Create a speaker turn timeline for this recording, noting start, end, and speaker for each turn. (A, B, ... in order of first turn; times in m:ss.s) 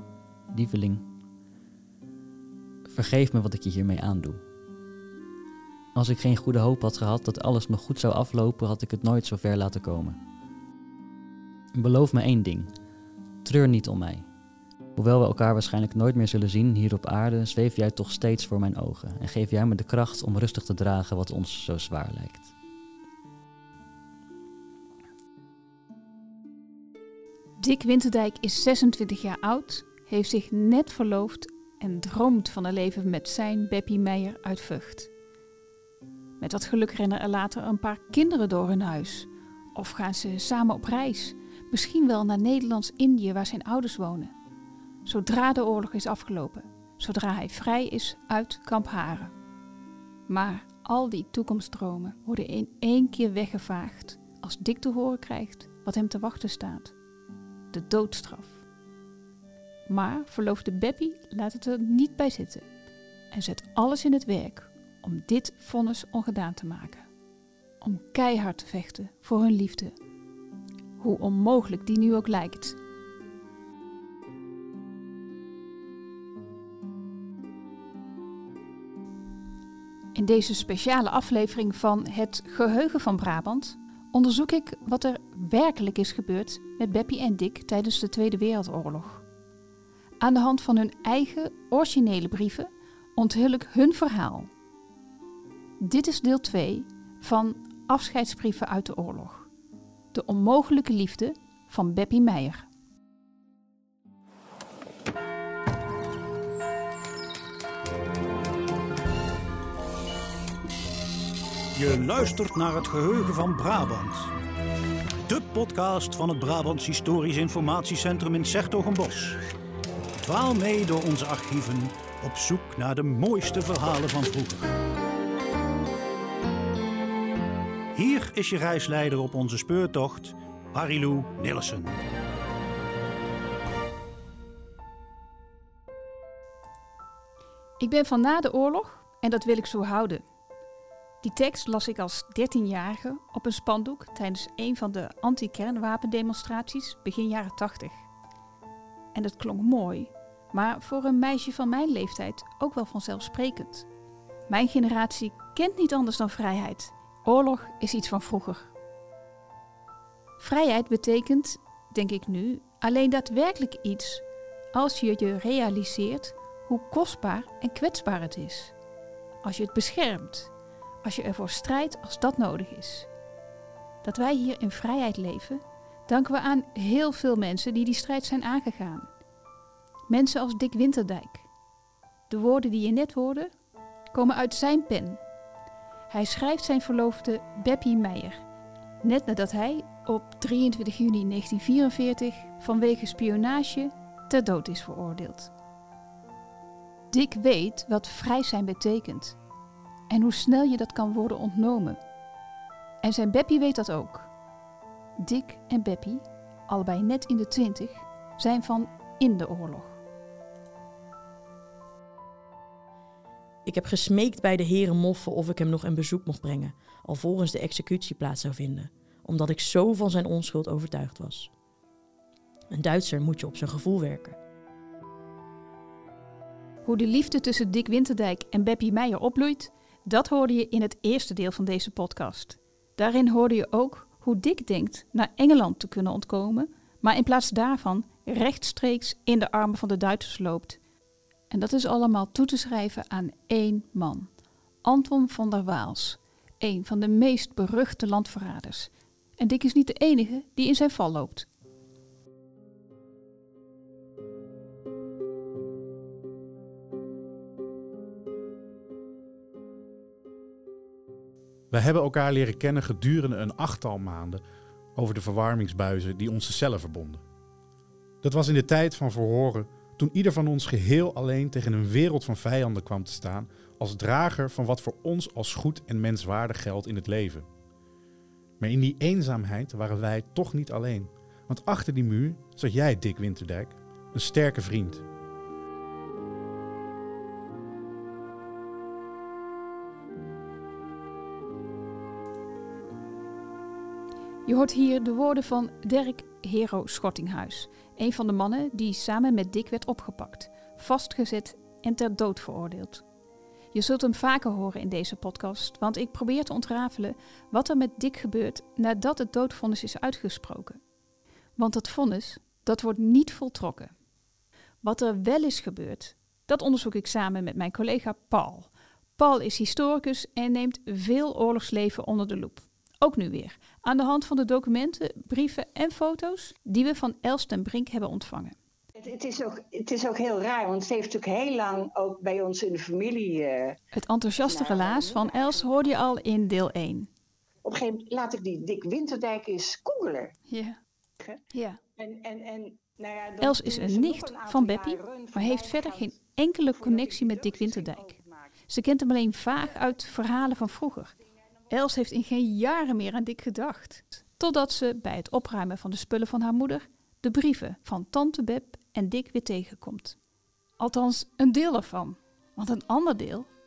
0:00.5-0:01.1 A
0:02.9-0:04.4 A
0:06.0-0:10.2 A
0:11.7-0:12.7 A
0:13.4-0:14.3 A
0:15.0-0:22.5 A
0:27.6-0:35.1 B
0:36.4-0:44.3 B
0:45.0-0:49.3 B
0:50.3-0:56.9 B
0:57.7-0:58.6 B
0:59.9-1:02.7 B
1:03.3-1:07.1 B
1:07.8-1:10.0 B
1:11.0-1:12.8 B
1:20.2-1:29.2 B
1:30.2-1:34.5 B
1:35.8-1:39.5 B
1:40.1-1:42.7 B
1:51.7-1:54.3 C
1:55.3-1:59.4 C
2:00.2-2:04.7 C
2:07.9-2:12.0 C
2:17.8-2:20.2 B
2:21.2-2:28.1 B
2:29.1-2:33.9 B
2:34.5-2:38.7 B
2:40.4-2:48.7 B
2:49.4-2:50.5 B
2:51.0-2:53.1 B
2:54.0-2:59.1 B
3:00.1-3:01.5 B
3:02.3-3:03.5 B
3:04.1-3:05.2 B
3:06.1-3:08.4 B
3:09.0-3:15.5 B
3:17.1-3:19.4 B
3:20.1-3:22.0 B
3:23.0-3:24.3 B
3:25.2-3:30.0 B
3:33.6-3:41.5 D
3:42.7-3:44.4 D
3:46.9-4:00.8 B
4:01.5-4:04.3 B
4:04.8-4:11.5 B
4:21.7-4:24.4 E
4:25.0-4:27.2 E
4:28.2-4:37.5 E
4:38.6-4:45.0 E
4:54.5-5:03.0 B
5:03.7-5:10.8 B
5:11.6-5:13.9 B
5:14.8-5:28.6 B
5:29.0-5:33.8 F
5:33.9-5:37.1 B
5:34.4-5:36.0 F
5:37.6-5:40.3 F
5:40.5-5:40.8 B
5:41.5-5:41.8 B
5:42.0-5:48.5 F
5:43.4-5:48.1 B
5:48.7-5:51.1 B
5:51.7-6:00.2 B
6:00.8-6:03.5 B